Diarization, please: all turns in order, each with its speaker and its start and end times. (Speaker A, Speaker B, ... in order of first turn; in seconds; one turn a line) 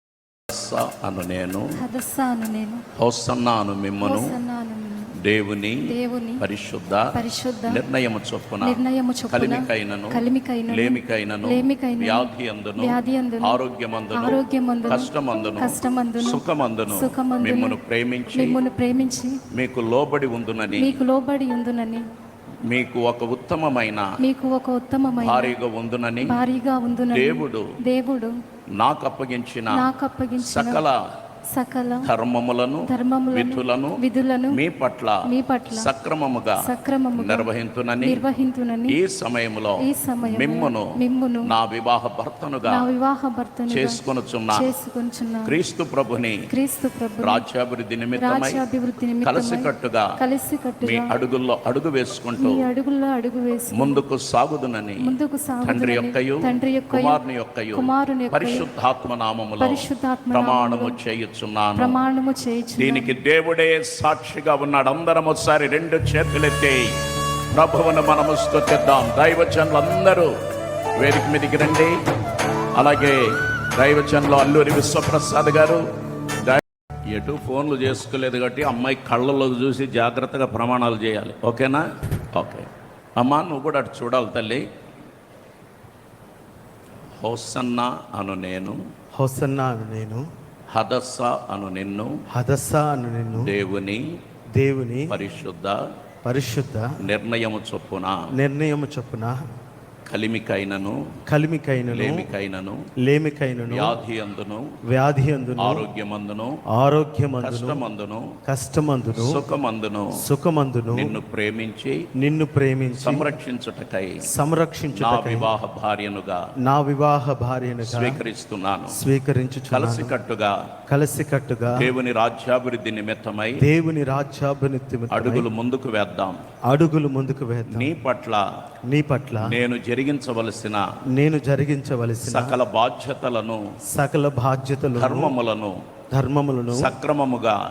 Speaker A: 0.5-1.7
Speaker B: 1.8-2.8
Speaker A: 3.0-4.4
Speaker B: 4.0-5.1
Speaker A: 5.2-10.2
Speaker B: 5.9-6.4
Speaker B: 7.1-7.8
Speaker B: 8.6-13.6
Speaker A: 10.7-18.6
Speaker B: 14.1-17.8
Speaker B: 18.3-19.4
Speaker A: 19.5-21.0
Speaker B: 20.7-22.0
Speaker A: 22.7-24.1
Speaker B: 24.2-25.6
Speaker A: 25.2-26.4
Speaker B: 26.2-28.4
Speaker A: 27.1-27.6
Speaker A: 28.8-31.0
Speaker B: 29.7-30.8
Speaker B: 31.5-32.1
Speaker A: 32.0-38.2
Speaker B: 32.9-34.6
Speaker B: 35.2-35.9
Speaker B: 36.5-39.0
Speaker A: 38.9-40.9
Speaker B: 39.8-41.5
Speaker A: 41.4-42.9
Speaker B: 42.6-45.6
Speaker A: 43.7-44.7
Speaker A: 45.5-46.4
Speaker B: 46.5-47.4
Speaker A: 47.2-48.6
Speaker B: 48.1-51.1
Speaker A: 49.2-50.1
Speaker A: 50.8-52.7
Speaker B: 52.4-54.0
Speaker A: 53.7-55.1
Speaker B: 55.0-57.2
Speaker A: 55.6-62.0
Speaker B: 57.7-58.7
Speaker B: 59.6-61.0
Speaker B: 61.8-63.1
Speaker A: 62.8-67.0
Speaker A: 67.5-70.3
Speaker A: 71.0-72.0
Speaker A: 72.8-75.8
Speaker A: 76.4-84.6
Speaker A: 87.2-88.8
Speaker C: 89.2-90.2
Speaker A: 90.7-92.2
Speaker C: 92.3-93.5
Speaker A: 93.3-94.0
Speaker C: 94.6-95.2
Speaker A: 95.1-95.8
Speaker C: 96.2-97.1
Speaker A: 97.0-98.2
Speaker C: 98.3-99.3
Speaker A: 100.0-101.1
Speaker C: 101.3-102.3
Speaker A: 101.9-102.8
Speaker C: 103.1-104.0
Speaker A: 103.7-104.8
Speaker C: 104.9-105.9
Speaker A: 105.6-106.6
Speaker C: 106.7-107.8
Speaker A: 107.4-108.3
Speaker C: 108.5-109.4
Speaker A: 109.2-110.2
Speaker C: 110.2-111.2
Speaker A: 110.9-112.0
Speaker C: 112.2-113.3
Speaker A: 113.0-114.2
Speaker C: 114.3-115.5
Speaker A: 114.9-116.4
Speaker C: 116.7-118.2
Speaker A: 117.8-119.0
Speaker C: 118.9-120.1
Speaker A: 119.7-120.6
Speaker C: 120.9-121.9
Speaker A: 121.7-123.6
Speaker C: 123.6-125.5
Speaker A: 125.1-126.4
Speaker C: 126.7-127.9
Speaker A: 127.7-128.4
Speaker C: 128.9-129.6
Speaker A: 129.4-130.8
Speaker C: 131.2-132.6
Speaker A: 132.2-133.6
Speaker C: 133.9-135.3
Speaker A: 134.9-135.8
Speaker C: 136.1-136.9
Speaker A: 136.8-137.6